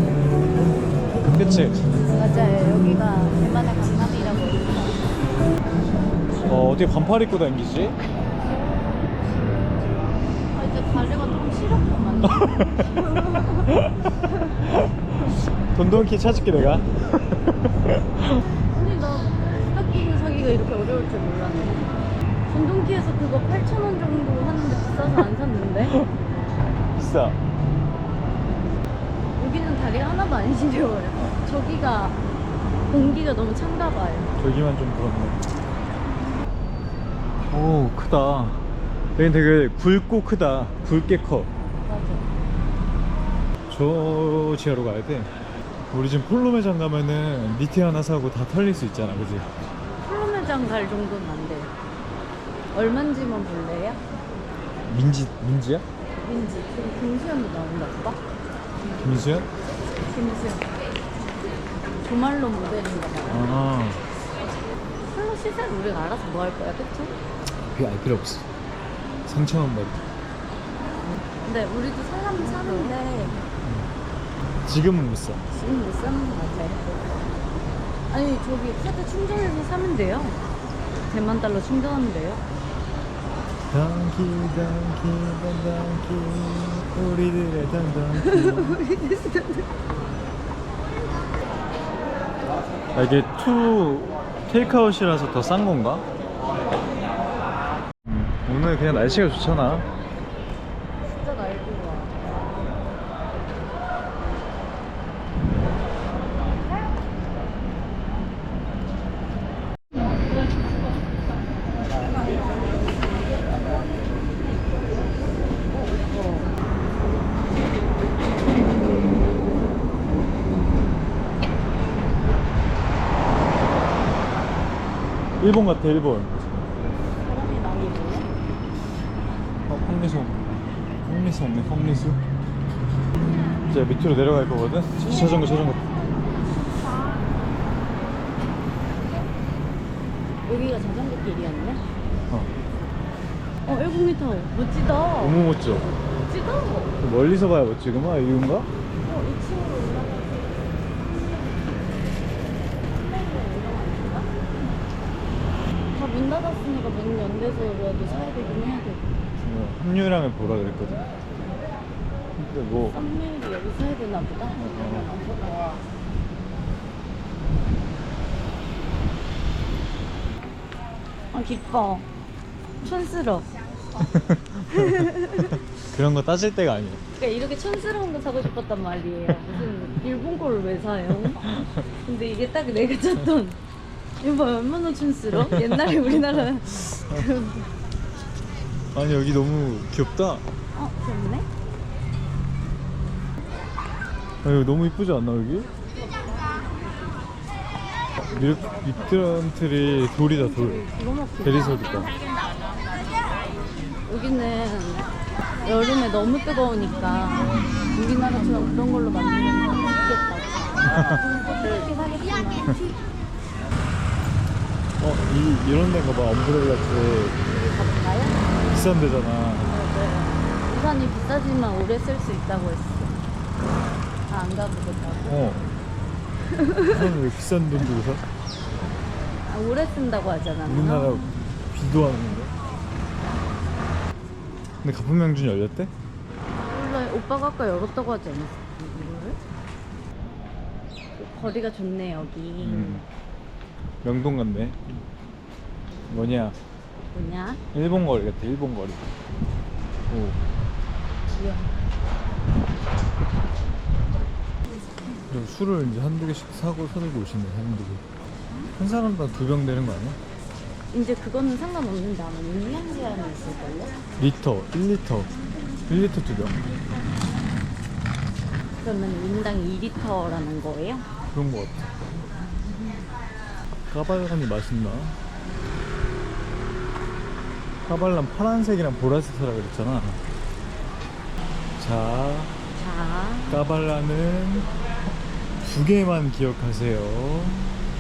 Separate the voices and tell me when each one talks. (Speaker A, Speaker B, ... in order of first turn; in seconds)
Speaker A: 1.1-1.9, 6.5-8.0, 12.4-12.8, 14.7-18.4, 27.0-27.4, 34.4-35.5, 37.5-38.6, 39.2-41.5, 43.7-45.3, 45.9-49.5, 54.9-55.9, 59.0-59.5, 63.3-64.0, 67.7-68.5, 69.3-70.0, 72.4-73.9, 74.7-75.4, 83.7-88.8, 92.9-96.0, 98.0-99.9, 125.4-126.7, 129.7-130.4, 131.1-132.2, 133.7-135.9, 145.2-145.9, 147.0-148.7, 159.4-161.1, 162.4-163.0, 164.6-165.1, 174.0-175.1, 175.8-177.0, 185.4-186.1, 188.9-190.4, 194.4-195.7, 198.2-200.9, 201.4-202.1, 215.0-217.5, 218.7-219.7, 225.3-225.7, 226.9-228.2, 230.7-232.5, 234.8-235.9, 242.6-243.0, 244.0-244.8, 246.1-246.6, 247.7-249.1, 250.1-250.4, 255.3-258.1, 258.8-260.2, 264.2-266.6, 271.3-271.9, 273.9-275.2, 277.9-280.2, 281.8-282.5, 283.5-284.7, 285.6-287.7
Speaker B: 2.1-5.0, 10.5-12.5, 13.3-13.6, 18.5-21.9, 22.5-26.0, 29.4-32.2, 32.9-34.3, 41.8-42.3, 50.0-51.7, 52.7-54.0, 56.2-58.2, 60.1-60.7, 62.0-63.5, 65.0-67.2, 71.4-73.4, 75.5-77.2, 78.1-80.4, 81.1-82.4, 88.2-89.7, 101.0-102.2, 115.7-116.5, 127.2-128.3, 140.5-141.8, 143.7-145.4, 146.1-146.9, 149.0-150.5, 152.9-154.3, 155.9-159.1, 162.9-165.8, 171.3-172.1, 172.8-173.5, 174.7-175.6, 177.2-183.6, 184.2-187.7, 190.7-191.5, 200.2-201.8, 204.1-212.8, 217.5-218.6, 219.6-223.2, 224.3-225.4, 226.4-227.1, 229.4-231.4, 236.7-239.4, 241.2-243.1, 247.1-247.6, 251.3-251.7, 260.9-264.0, 268.8-271.1, 282.8-283.6